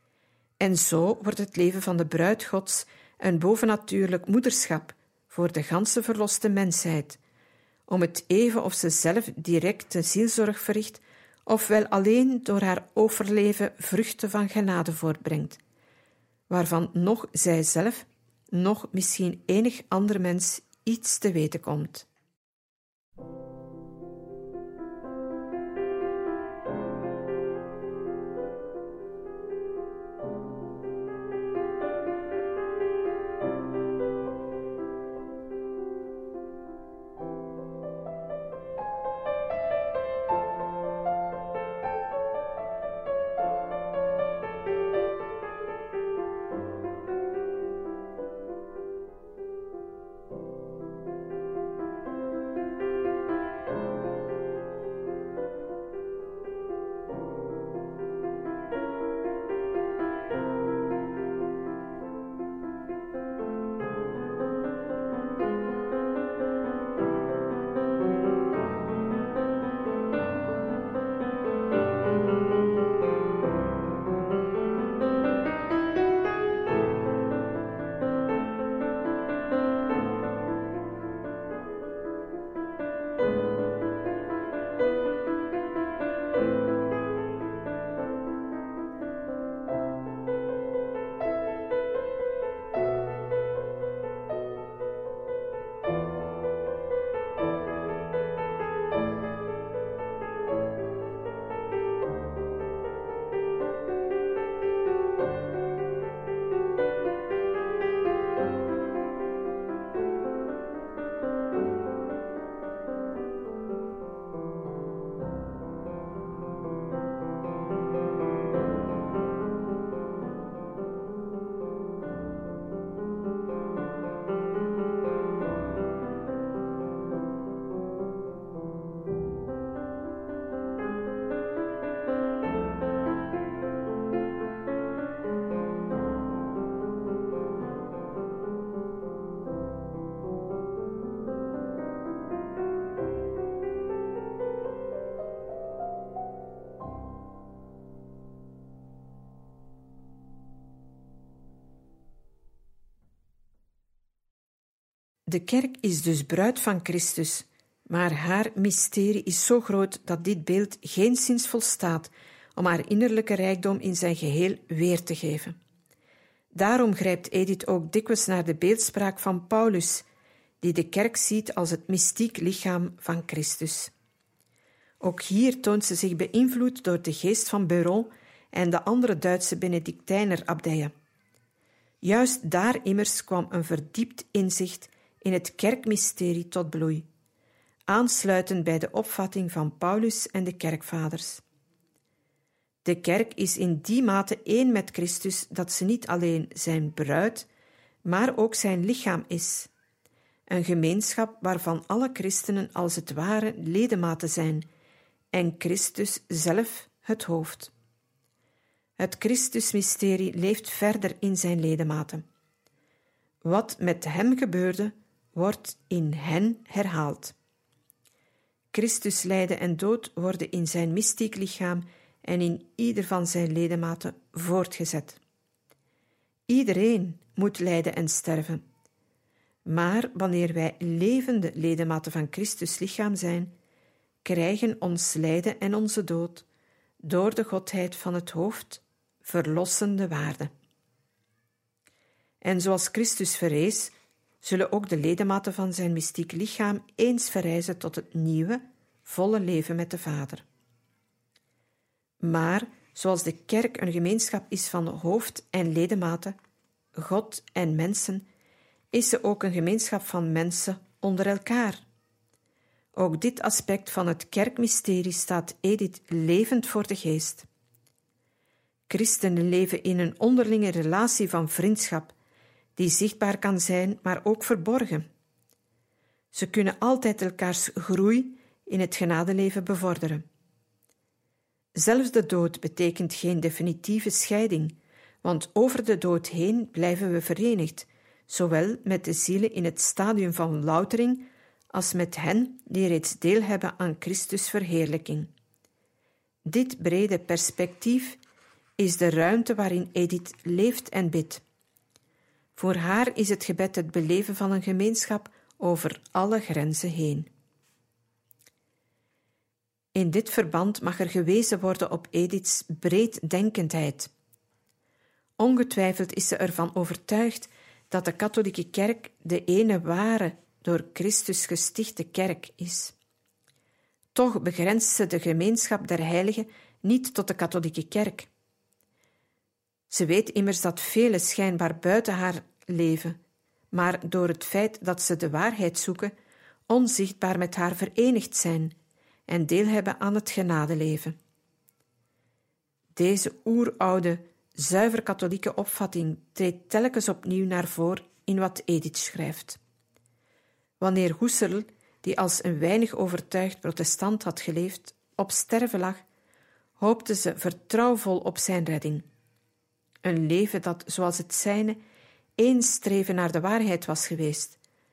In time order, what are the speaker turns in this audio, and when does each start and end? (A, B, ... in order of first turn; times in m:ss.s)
0:00.6-0:07.2 A
0:07.9-0:15.6 A
0:16.5-0:22.1 A
2:35.3-2:45.6 A
2:46.6-2:50.1 A
2:50.6-2:53.9 A
2:55.0-3:00.9 A
3:02.0-3:07.1 A
3:07.9-3:11.4 A
3:12.8-3:17.5 A
3:18.0-3:19.7 A
3:20.5-3:24.7 A
3:25.3-3:27.7 A
3:29.0-3:32.2 A
3:33.4-3:37.4 A
3:38.7-3:45.2 A
3:46.5-3:48.6 A
3:49.7-3:53.5 A
3:54.2-3:56.4 A
3:57.0-4:00.5 A
4:02.4-4:10.4 A
4:12.2-4:16.4 A
4:17.0-4:18.3 A
4:18.9-4:21.8 A
4:22.9-4:27.5 A
4:28.9-4:32.1 A
4:32.8-4:35.1 A
4:36.3-4:40.2 A
4:41.8-4:55.3 A
4:56.5-4:58.2 A
4:58.8-5:01.4 A
5:02.6-5:07.3 A
5:09.9-5:14.1 A
5:15.4-5:23.0 A
5:24.1-5:28.3 A
5:29.9-5:33.2 A
5:33.7-5:36.1 A
5:36.7-5:38.8 A
5:39.3-5:41.2 A
5:43.0-5:49.6 A
5:50.8-5:56.0 A
5:56.8-5:59.1 A
6:00.0-6:01.8 A
6:02.4-6:04.6 A